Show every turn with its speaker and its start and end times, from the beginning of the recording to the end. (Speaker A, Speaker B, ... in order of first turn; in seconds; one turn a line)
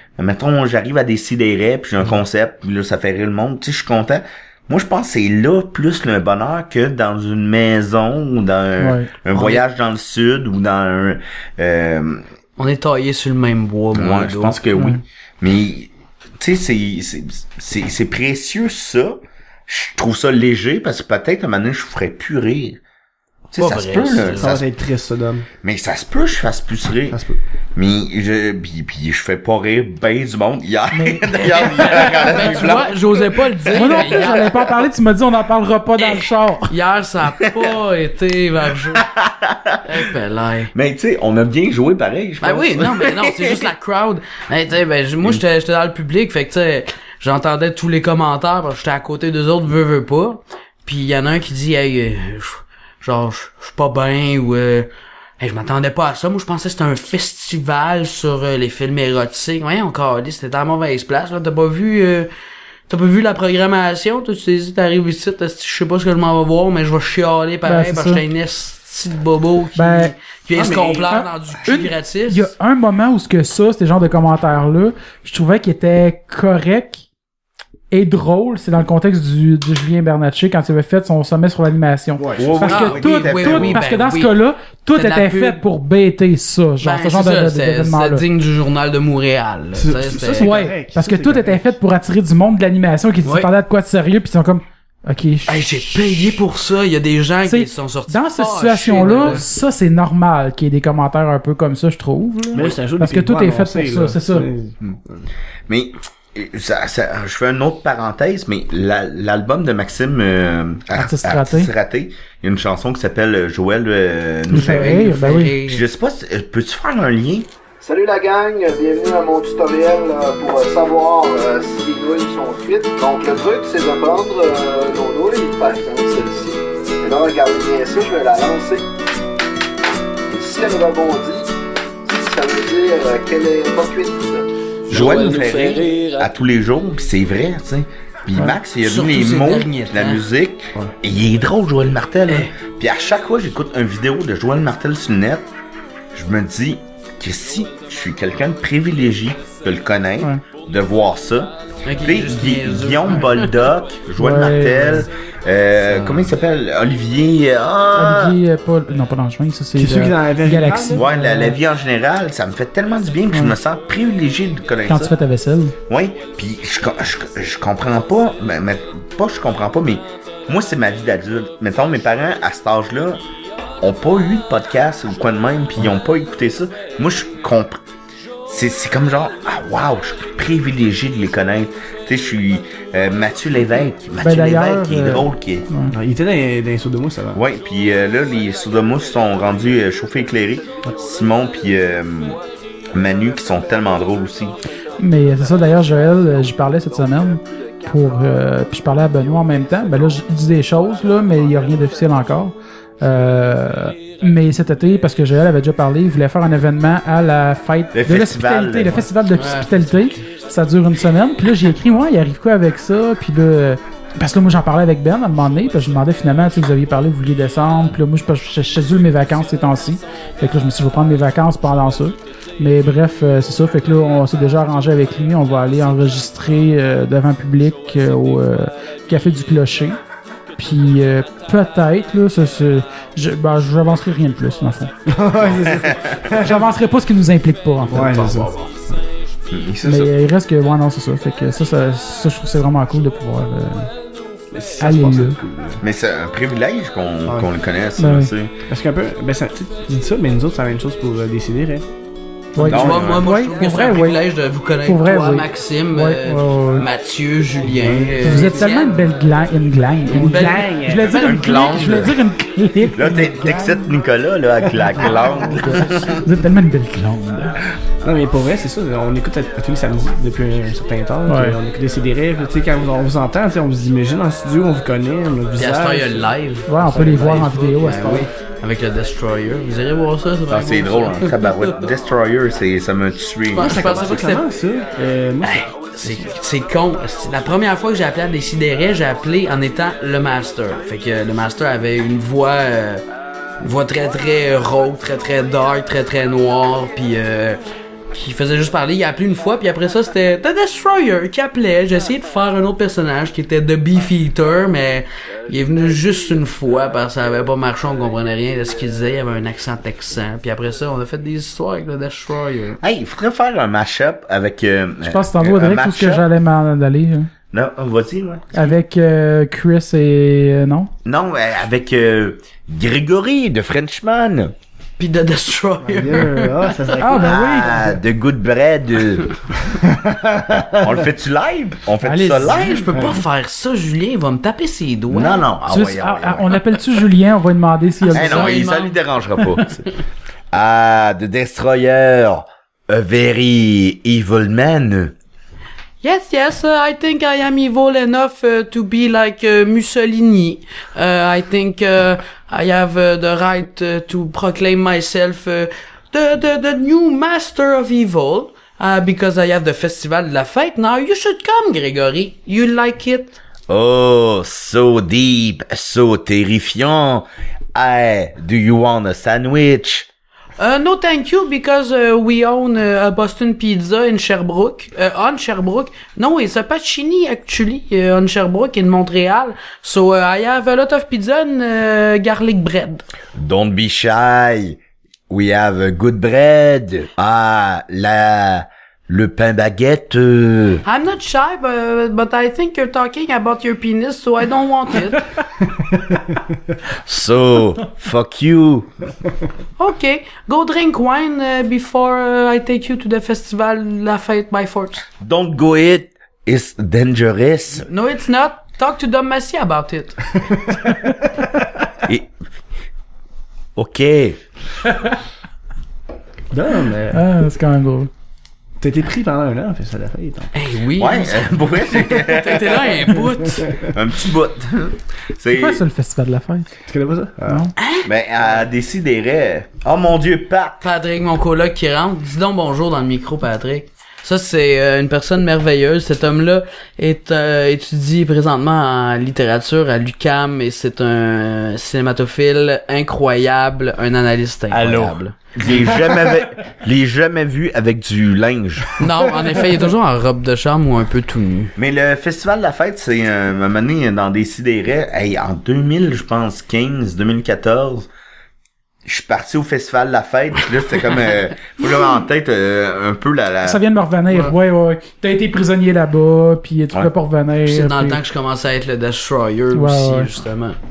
Speaker A: 0.2-12.2
Speaker B: 8.8-9.1
Speaker C: 9.3-9.6
Speaker C: 12.6-14.6
Speaker A: 13.9-15.9
Speaker B: 14.7-15.0
Speaker A: 16.4-22.8
Speaker A: 23.5-24.6
Speaker C: 23.6-24.5
Speaker D: 24.4-25.5
Speaker A: 25.6-27.2
Speaker D: 27.1-27.4
Speaker A: 27.8-34.7
Speaker B: 30.9-32.8
Speaker C: 31.3-34.6
Speaker B: 33.7-36.7
Speaker C: 36.0-39.0
Speaker A: 38.9-39.8
Speaker C: 39.8-40.7
Speaker A: 40.7-43.7
Speaker C: 42.4-62.3
Speaker C: 62.9-72.5
Speaker B: 67.7-68.2
Speaker B: 69.8-70.1
Speaker D: 70.5-71.1
Speaker B: 71.0-77.0
Speaker B: 77.9-88.2
Speaker D: 82.2-82.5
Speaker A: 82.4-83.8
Speaker C: 82.7-84.3
Speaker C: 84.9-85.6
Speaker C: 86.8-90.5
Speaker D: 89.8-91.7
Speaker B: 90.2-95.7
Speaker C: 93.2-93.5
Speaker C: 95.5-99.4
Speaker B: 97.5-104.5
Speaker D: 102.5-105.2
Speaker A: 105.7-117.5
Speaker B: 110.9-111.7
Speaker B: 114.5-115.5
Speaker C: 114.5-115.8
Speaker E: 117.8-128.8
Speaker E: 130.3-131.5
Speaker E: 132.0-134.4
Speaker A: 134.9-145.5
Speaker C: 134.9-136.3
Speaker C: 138.8-140.2
Speaker C: 142.3-142.5
Speaker A: 146.1-158.4
Speaker C: 151.8-153.5
Speaker B: 154.2-155.1
Speaker C: 155.9-156.3
Speaker B: 157.9-161.6
Speaker D: 159.8-161.1
Speaker A: 160.9-165.1
Speaker B: 164.9-165.7
Speaker A: 165.9-173.2
Speaker A: 173.8-177.8
Speaker A: 178.5-185.7
Speaker B: 184.2-185.9
Speaker D: 185.9-187.4
Speaker A: 187.3-192.4
Speaker A: 192.9-194.5
Speaker B: 195.0-230.0
Speaker A: 207.9-209.1
Speaker C: 209.3-210.2
Speaker B: 230.6-234.9
Speaker D: 235.0-236.7
Speaker A: 235.6-236.3
Speaker B: 236.3-238.2
Speaker D: 237.8-239.0
Speaker A: 238.2-238.5
Speaker A: 239.5-240.1
Speaker B: 239.8-243.9
Speaker D: 244.5-245.8
Speaker B: 244.8-245.4
Speaker A: 245.8-248.5
Speaker B: 248.0-248.3
Speaker D: 248.7-251.9
Speaker D: 252.5-252.8
Speaker B: 252.5-254.2
Speaker A: 252.6-253.3
Speaker C: 252.7-259.1
Speaker B: 254.8-256.9
Speaker D: 257.6-258.7
Speaker B: 258.2-263.9
Speaker C: 260.1-261.9
Speaker D: 260.1-261.1
Speaker A: 261.1-262.2
Speaker A: 262.9-266.2
Speaker B: 264.9-267.5
Speaker D: 268.0-278.2
Speaker B: 271.2-271.6
Speaker C: 275.6-276.7
Speaker B: 276.7-278.3
Speaker C: 277.3-281.8
Speaker A: 280.5-283.9
Speaker C: 283.5-284.5
Speaker D: 283.6-286.3
Speaker C: 285.4-293.0
Speaker C: 293.6-297.6
Speaker C: 298.1-312.8
Speaker A: 312.8-316.2
Speaker B: 315.1-317.3
Speaker A: 317.5-318.8
Speaker B: 318.5-320.9
Speaker A: 321.0-324.5
Speaker C: 325.0-326.7
Speaker D: 325.8-327.8
Speaker B: 327.0-328.0
Speaker A: 327.1-329.3
Speaker D: 329.7-331.0
Speaker A: 330.8-332.8
Speaker B: 332.0-332.9
Speaker C: 332.4-335.4
Speaker D: 332.9-333.2
Speaker A: 335.1-336.6
Speaker B: 335.7-338.5
Speaker C: 338.1-339.0
Speaker A: 338.1-339.9
Speaker A: 340.5-345.1
Speaker C: 346.0-363.4
Speaker A: 363.7-370.1
Speaker C: 370.6-383.0
Speaker A: 383.3-384.8
Speaker A: 385.3-390.8
Speaker C: 390.8-395.3
Speaker D: 395.8-396.4
Speaker A: 396.9-398.9
Speaker C: 399.8-405.1
Speaker A: 405.2-407.9
Speaker C: 407.8-410.3
Speaker D: 410.4-411.9
Speaker A: 413.8-414.4
Speaker D: 416.5-417.2
Speaker B: 417.1-418.1
Speaker D: 418.8-420.5
Speaker C: 420.5-423.7
Speaker A: 421.0-423.2
Speaker D: 423.4-423.9
Speaker A: 423.8-425.8
Speaker B: 425.5-426.7
Speaker D: 426.9-427.7
Speaker B: 427.5-427.7
Speaker C: 427.8-428.1
Speaker A: 428.0-430.8
Speaker C: 430.8-445.4
Speaker A: 444.7-449.1
Speaker C: 449.0-451.7
Speaker A: 451.8-458.1
Speaker A: 459.0-463.8
Speaker B: 463.6-468.2
Speaker C: 464.3-464.5
Speaker C: 467.6-470.8
Speaker B: 469.7-470.3